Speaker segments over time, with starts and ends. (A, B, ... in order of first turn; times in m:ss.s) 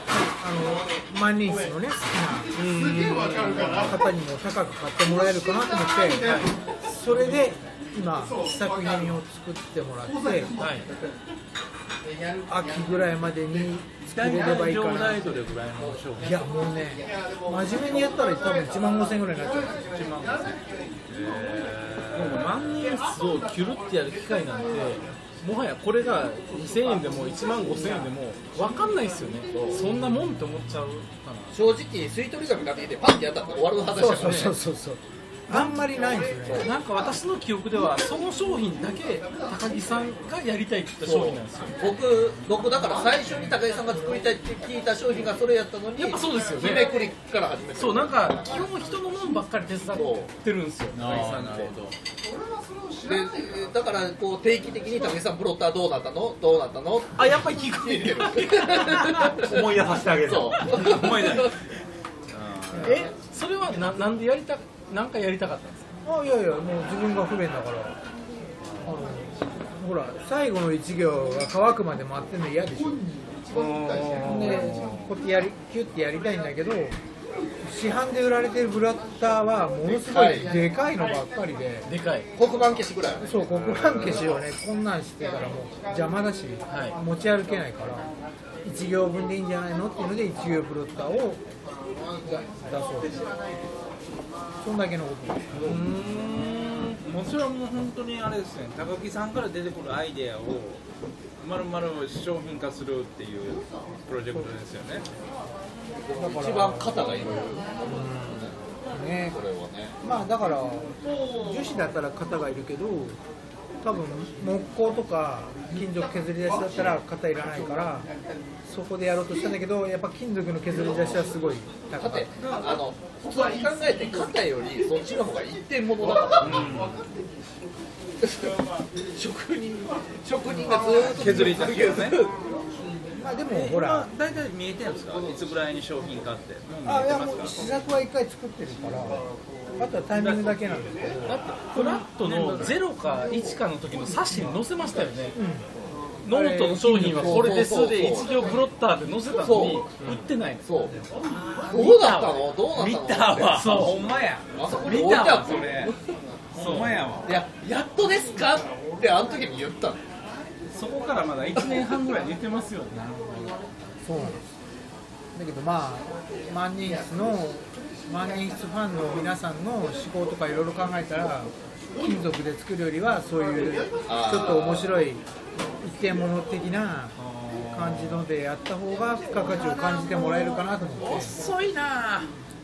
0:00.1-0:10.5 A
0:02.5-0:04.0 B
0:10.6-0:10.9 B
0:12.5-0:15.4 A
0:14.1-0:16.4 C
0:16.2-0:19.8 A
0:19.9-0:22.5 C
0:22.1-0:31.6 B
0:31.5-0:34.6 D
0:33.9-0:36.7 A
0:34.1-0:34.5 B
0:36.6-0:41.9 B
0:41.0-0:48.4 D
0:46.0-0:46.9 B
0:47.8-0:51.7 B
0:49.9-0:50.3 D
0:50.9-0:51.9 C
0:53.1-0:59.7 D
0:57.2-0:59.4 B
0:59.4-1:00.7 E
1:00.2-1:01.5 D
1:00.7-1:01.6 C
1:02.3-1:03.0 C
1:02.8-1:06.0 B
1:06.0-1:08.0 A
1:08.8-1:13.1 A
1:13.5-1:15.1 B
1:14.1-1:17.0 A
1:17.6-1:21.9 A
1:19.9-1:20.6 D
1:21.8-1:22.3 B
1:22.4-1:23.3 D
1:23.2-1:28.1 A
1:23.5-1:24.1 E
1:26.7-1:27.0 B
1:28.6-1:31.4 A
1:32.2-1:33.3 A
1:34.6-1:35.8 A
1:35.6-1:37.0 B
1:37.0-1:40.8 C
1:41.4-1:45.0 C
1:46.0-1:48.6 D
1:46.2-1:47.4 A
1:47.9-1:48.2 A
1:48.9-1:49.4 A
1:49.3-1:50.0 D
1:50.0-1:53.2 A
1:53.8-1:58.1 A
1:58.6-2:02.3 A
2:02.0-2:06.7 D
2:06.4-2:06.9 B
2:06.5-2:06.8 C
2:08.2-2:08.5 D
2:09.2-2:12.3 D
2:11.0-2:12.2 C
2:11.1-2:12.0 B
2:13.2-2:14.1 A
2:13.5-2:17.7 C
2:16.8-2:19.2 A
2:19.8-2:22.7 A
2:21.2-2:25.4 B
2:25.3-2:25.6 A
2:26.2-2:30.6 B
2:26.3-2:27.6 A
2:27.2-2:28.5 D
2:29.4-2:29.9 D
2:30.6-2:30.9 D
2:31.7-2:32.4 B
2:31.7-2:33.9 D
2:32.7-2:35.9 C
2:33.5-2:34.0 B
2:34.5-2:36.0 D
2:36.5-2:37.3 C
2:36.6-2:37.1 B
2:37.2-2:40.0 D
2:40.7-2:43.6 B
2:44.0-2:44.5 A
2:45.3-2:55.2 A
2:54.1-2:55.0 D
2:55.8-2:57.2 A
2:57.2-2:58.2 C
2:57.7-3:01.4 A
2:59.4-3:02.3 C